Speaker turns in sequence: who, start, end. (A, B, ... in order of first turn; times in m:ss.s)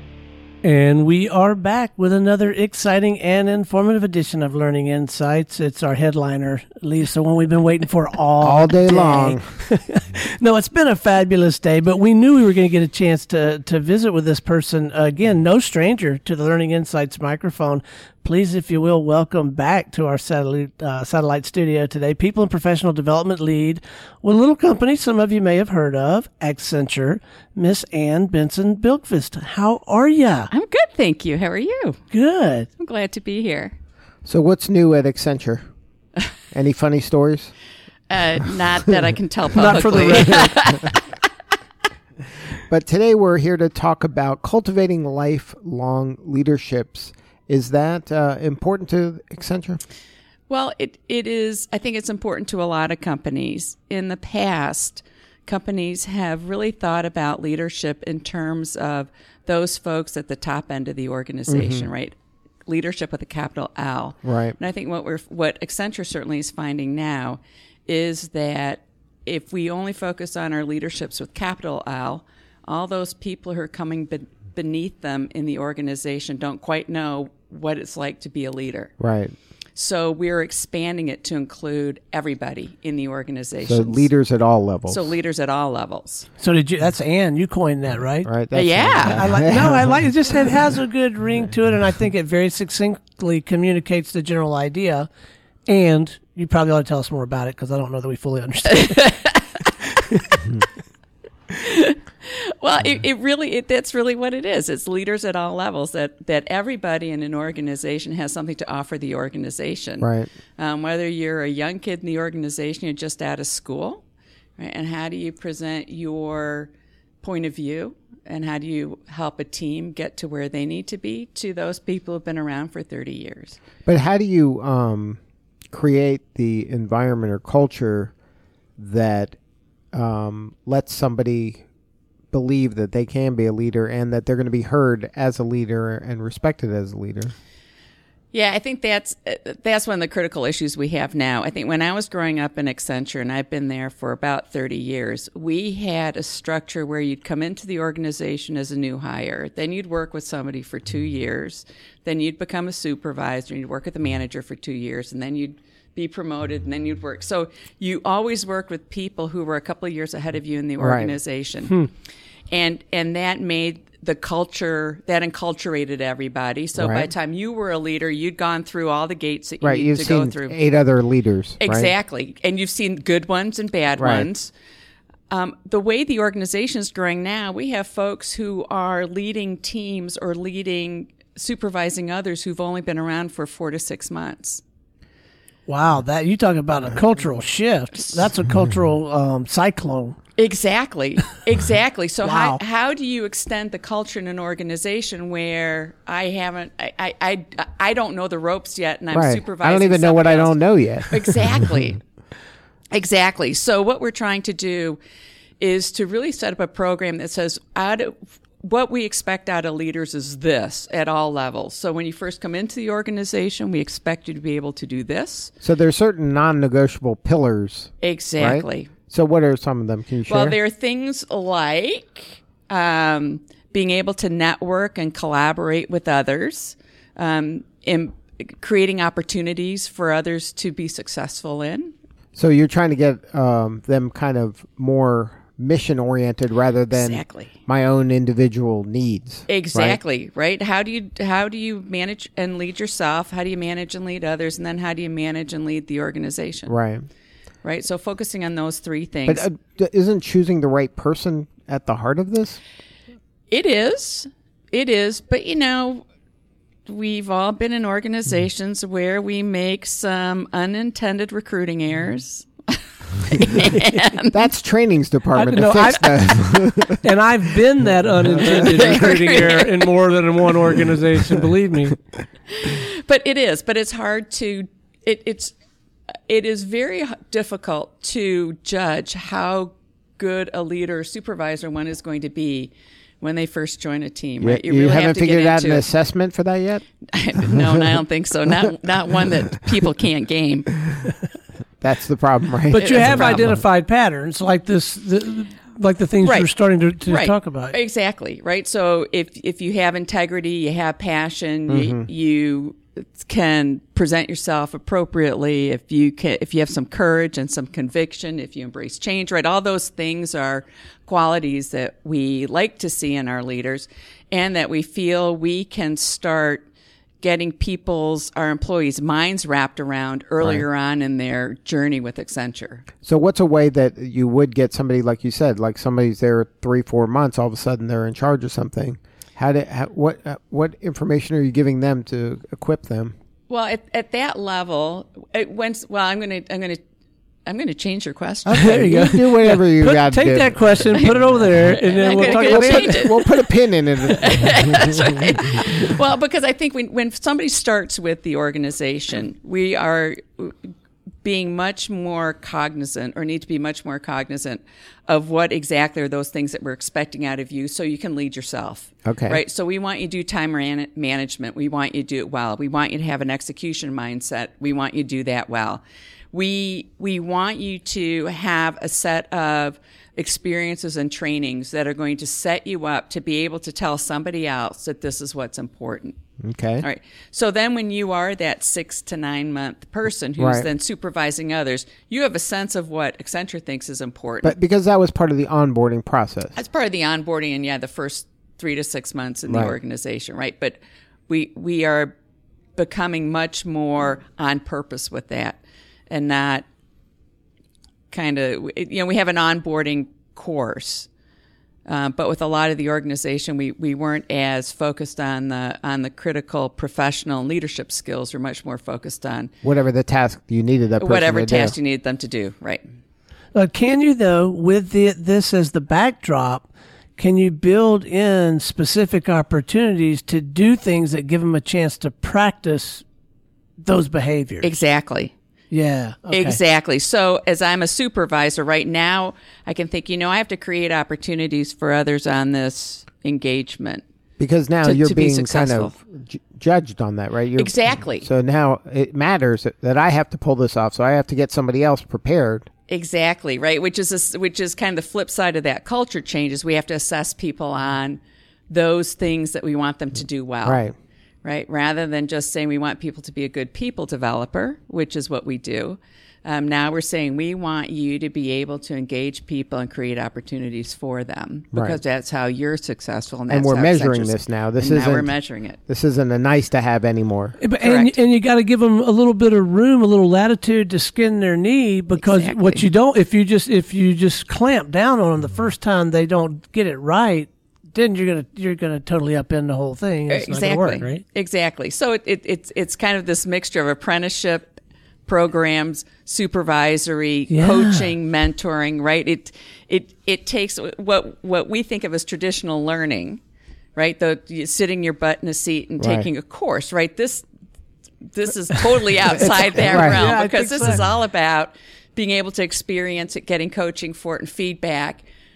0:00.6-0:30.5 A
0:08.4-0:09.4 B
0:30.5-0:32.0 C
0:32.1-0:32.7 A
0:32.8-0:33.8 C
0:34.2-0:35.7 B
0:36.5-0:37.5 B
0:38.1-0:41.0 C
0:39.6-0:40.6 A
0:42.7-0:49.8 B
0:50.5-1:02.2 C
1:01.5-1:01.9 B
1:02.7-1:18.9 C
1:04.2-1:04.6 B
1:19.0-1:19.4 B
1:19.8-1:24.1 C
1:23.6-1:25.2 B
1:24.9-1:26.3 C
1:26.4-1:28.3 A
1:28.2-1:30.0 B
1:28.5-1:29.2 C
1:29.1-1:35.1 A
1:35.7-1:39.0 A
1:38.7-1:39.7 C
1:41.6-1:54.0 C
1:50.0-1:50.3 B
1:54.6-2:03.6 C
2:03.9-2:05.2 B
2:05.7-2:08.1 B
2:08.8-2:09.4 B
2:09.9-2:11.6 B
2:12.3-2:17.3 B
2:18.3-2:41.8 C
2:40.8-2:41.2 B
2:42.5-2:50.6 C
2:46.8-2:47.1 B
2:49.6-2:51.9 B
2:51.6-2:54.5 C
2:54.0-2:54.3 B
2:55.3-3:04.6 C
3:05.7-3:10.2 A
3:10.4-3:22.0 C
3:12.2-3:12.6 A
3:19.1-3:21.5 B
3:22.9-3:25.0 C
3:25.6-3:35.5 C
3:35.6-3:40.6 B
3:38.0-3:38.9 C
3:40.3-3:51.9 C
3:52.4-4:00.0 B
3:56.9-3:57.5 C
3:59.5-4:06.7 C
4:06.7-4:07.1 B
4:07.6-4:09.5 C
4:09.3-4:12.6 B
4:13.5-4:16.0 C
4:16.9-4:24.4 C
4:24.3-4:27.1 B
4:25.3-4:32.0 A
4:28.3-4:28.8 B
4:28.8-4:30.0 C
4:32.5-4:35.5 C
4:36.3-4:45.9 C
4:44.4-4:46.8 B
4:47.1-4:50.7 C
4:51.8-4:53.6 B
4:52.7-4:57.8 A
4:52.8-4:53.5 C
4:56.2-4:56.5 C
4:57.1-5:16.7 C
5:01.7-5:02.1 B
5:17.2-5:22.9 C
5:20.4-5:20.7 B
5:23.0-5:33.1 B
5:33.5-5:36.8 C
5:37.5-5:38.6 C
5:38.4-5:40.6 B
5:38.5-5:43.1 A
5:41.0-5:43.2 C
5:42.4-5:44.8 B
5:44.0-6:16.2 C
5:59.0-5:59.4 B
6:16.4-6:16.8 B
6:16.8-6:24.5 C
6:20.4-6:20.7 B
6:24.4-6:26.6 B
6:26.6-6:32.2 C
6:29.5-6:29.8 B
6:32.8-6:36.6 C
6:38.1-6:41.1 C
6:41.9-6:49.5 C
6:49.6-6:51.8 B
6:51.0-6:52.9 C
6:53.5-7:03.0 A
7:03.8-7:04.7 A
7:04.6-7:05.3 C
7:05.7-7:06.6 A
7:06.3-7:14.0 C
7:14.4-7:22.7 B
7:14.8-7:16.0 C
7:17.6-7:18.3 C
7:22.9-7:30.8 C
7:30.6-7:30.9 B
7:31.4-7:45.8 C
7:41.7-7:42.0 B
7:43.5-7:45.4 B
7:45.9-7:47.6 B
7:47.6-8:01.2 A
7:47.8-7:48.1 C
7:52.2-7:52.9 C
8:00.3-8:13.4 C
8:07.5-8:08.1 A
8:14.0-8:17.5 C
8:16.0-8:16.3 B
8:18.3-8:25.3 C
8:19.4-8:20.2 B
8:19.8-8:21.0 A